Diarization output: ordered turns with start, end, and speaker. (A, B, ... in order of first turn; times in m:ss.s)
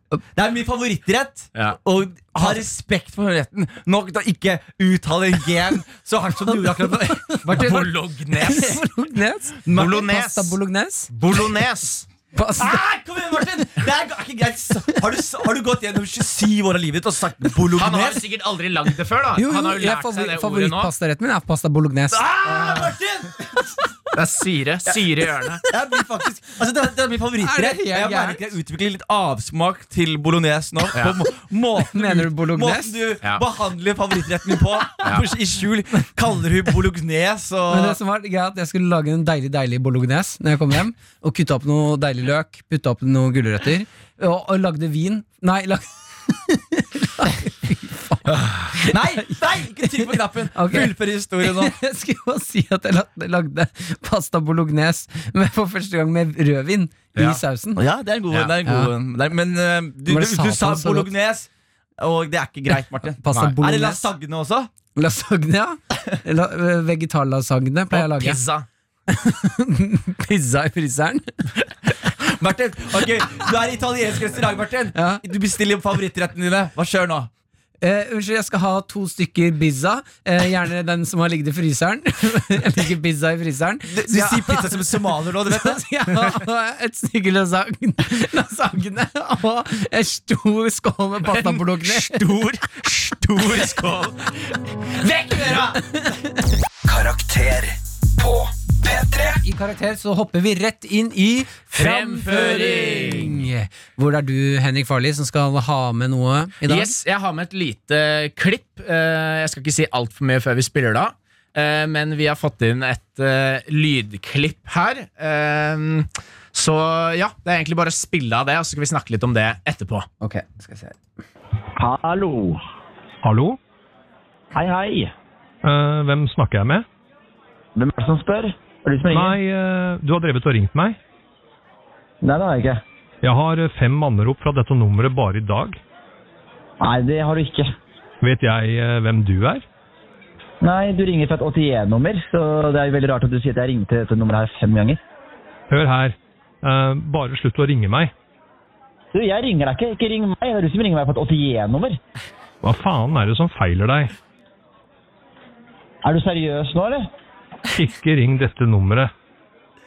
0:00.3-0:07.9 A
0:06.8-0:11.1 B
0:07.5-0:08.8 C
0:08.4-0:08.8 A
0:09.6-0:10.1 A
0:09.7-0:10.6 C
0:11.1-0:12.0 C
0:12.3-0:12.8 B
0:12.6-0:18.2 A
0:17.8-0:20.9 C
0:19.4-0:22.2 B
0:22.1-0:24.0 A
0:24.1-0:25.6 C
0:25.7-0:38.0 A
0:27.4-0:28.4 B
0:31.8-0:32.9 B
0:35.0-0:35.3 C
0:37.7-0:57.8 B
0:48.3-0:48.7 C
0:48.8-0:51.7 A
0:57.1-0:57.4 C
0:57.8-1:04.7 A
0:58.6-0:58.9 B
1:00.1-1:01.1 B
1:03.2-1:04.0 B
1:05.0-1:08.4 B
1:07.9-1:08.6 C
1:09.1-1:11.2 B
1:11.9-1:17.3 A
1:14.9-1:15.2 B
1:17.8-1:24.9 B
1:23.9-1:25.8 A
1:25.5-1:32.2 B
1:31.3-1:34.3 C
1:34.9-1:35.7 C
1:35.0-1:35.8 A
1:35.8-1:36.4 B
1:39.2-1:47.0 B
1:41.7-1:43.4 C
1:46.6-2:00.0 C
2:00.2-2:01.0 B
2:01.8-2:02.6 D
2:03.2-2:03.6 E
2:04.5-2:05.1 D
2:05.6-2:06.8 E
2:07.8-2:09.4 D
2:09.1-2:11.0 E
2:12.2-2:12.8 D
2:13.2-2:15.8 E
2:16.8-2:17.7 D
2:18.2-2:19.6 E
2:20.6-2:25.0 D
2:25.7-2:28.1 E
2:29.1-2:32.0 D
2:32.6-2:34.1 E
2:36.0-2:37.0 D
2:37.7-2:39.1 E